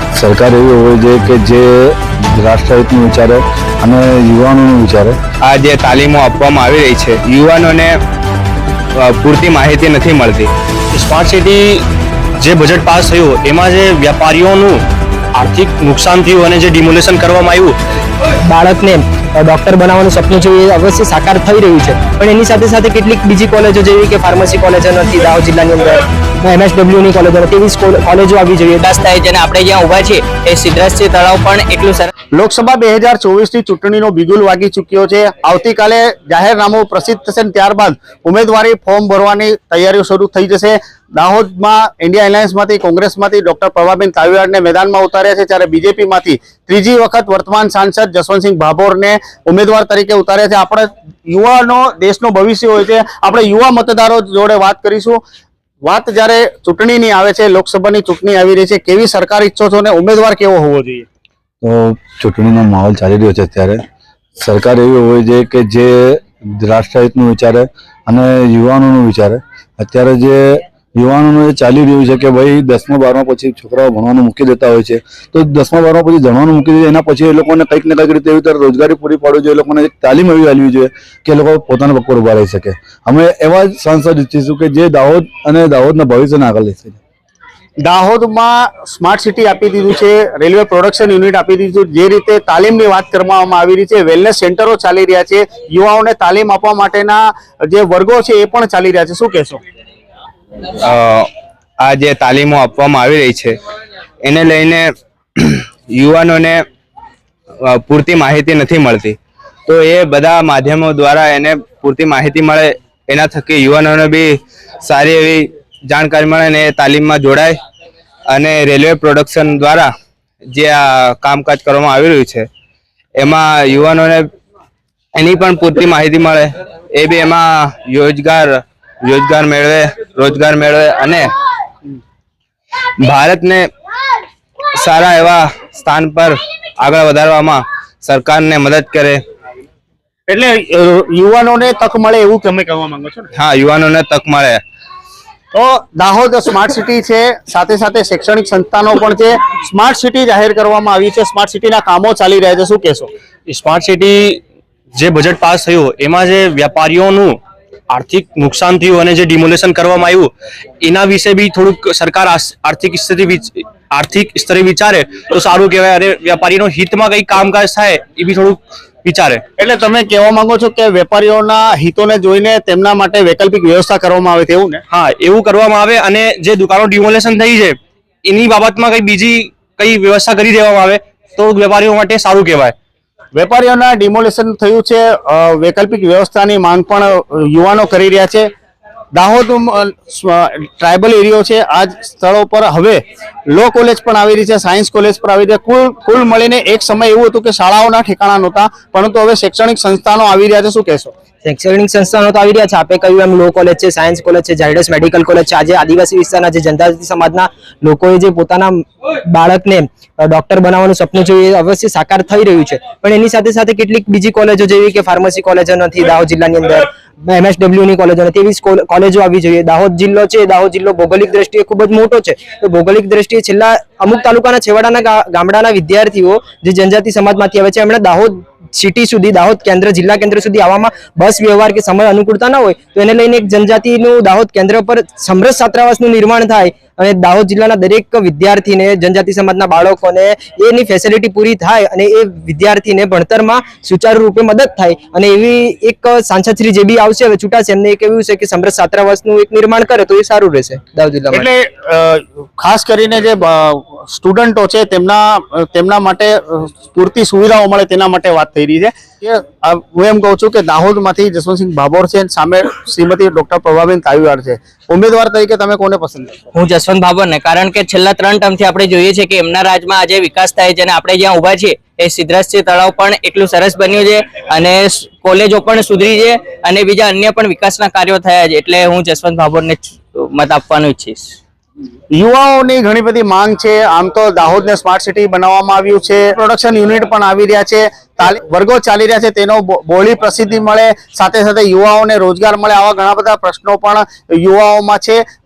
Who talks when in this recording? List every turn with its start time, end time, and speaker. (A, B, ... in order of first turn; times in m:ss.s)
0:00.2-0:05.1 A
0:05.4-0:08.0 B
0:09.0-0:10.5 B
0:10.9-0:11.8 C
0:12.4-0:14.8 C
0:15.3-0:17.8 C
0:18.4-0:28.9 D
0:28.8-0:32.1 E
0:32.3-0:55.2 F
0:55.8-1:01.0 F
1:01.6-1:03.8 A
1:04.4-1:27.0 A
1:27.8-1:39.6 F
1:40.8-1:41.3 B
1:41.8-1:43.5 B
1:44.2-1:46.6 B
1:47.6-1:57.6 B
1:58.3-1:59.9 B
2:00.5-2:02.5 B
2:03.2-2:04.3 B
2:05.1-2:11.3 B
2:13.0-2:13.6 B
2:14.8-2:19.2 B
2:20.3-2:23.3 F
2:23.4-2:24.6 B
2:25.5-2:33.1 F
2:33.5-2:34.4 C
2:34.9-2:37.4 C
2:37.9-2:49.4 C
2:49.6-2:54.8 F
2:54.9-3:02.7 C
3:03.3-3:08.5 F
3:09.1-3:21.1 F
3:21.4-4:11.4 D
4:11.3-4:26.4 F
4:26.5-4:41.3 E
4:42.1-4:55.2 F